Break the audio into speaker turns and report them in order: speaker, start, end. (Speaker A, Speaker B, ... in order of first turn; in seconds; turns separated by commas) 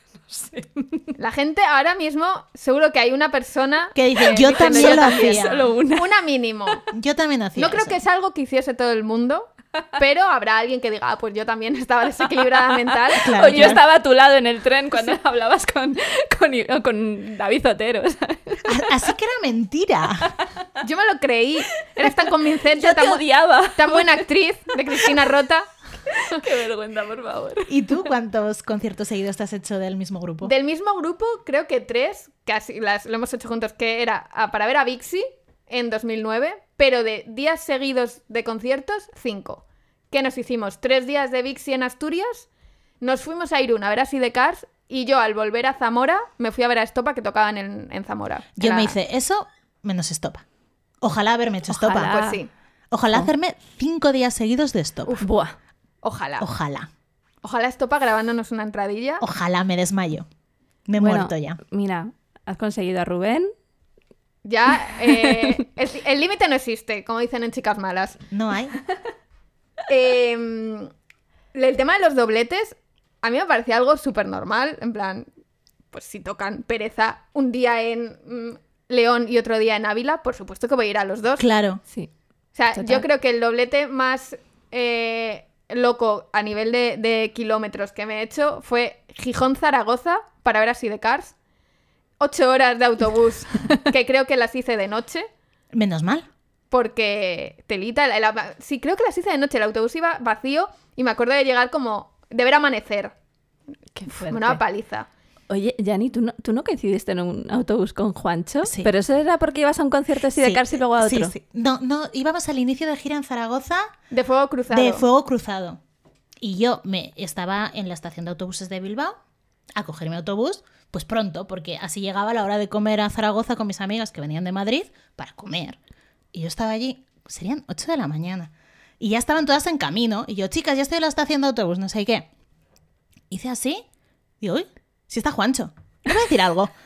Speaker A: 0.2-1.1, Speaker B: 1.2-6.8, Speaker C: 3.9-5.6, Speaker A: 4.4-6.1, Speaker C: 6.9-8.0, Speaker B: 7.5-13.8, Speaker A: 12.8-18.8, Speaker C: 13.2-13.8, Speaker C: 18.6-20.3, Speaker B: 20.8-25.7, Speaker A: 22.7-24.2, Speaker A: 26.1-27.7, Speaker C: 27.7-30.5, Speaker B: 30.4-42.5, Speaker B: 43.0-49.0, Speaker C: 48.6-50.4, Speaker C: 51.0-52.2, Speaker A: 51.7-52.4, Speaker B: 52.1-52.5, Speaker C: 52.9-55.1, Speaker A: 55.2-55.5, Speaker B: 56.0-56.5, Speaker C: 56.4-56.9, Speaker B: 57.4-59.2, Speaker C: 59.2-60.3, Speaker C: 60.9-61.6, Speaker A: 61.0-63.5, Speaker B: 64.4-68.2, Speaker A: 65.1-65.5, Speaker C: 68.3-68.8, Speaker B: 69.9-70.9, Speaker B: 71.5-75.3, Speaker B: 75.9-81.5, Speaker C: 81.4-81.8, Speaker B: 82.5-91.3, Speaker A: 82.8-83.0, Speaker B: 92.2-95.3, Speaker C: 95.7-96.2, Speaker B: 96.7-103.1, Speaker A: 104.0-104.6, Speaker B: 104.1-105.1, Speaker A: 105.5-111.3, Speaker C: 108.6-108.9, Speaker C: 110.3-113.9, Speaker B: 114.1-115.0, Speaker C: 114.7-115.8, Speaker C: 116.4-119.2, Speaker C: 119.8-125.8, Speaker C: 126.3-132.3, Speaker C: 133.3-133.8, Speaker C: 134.4-136.7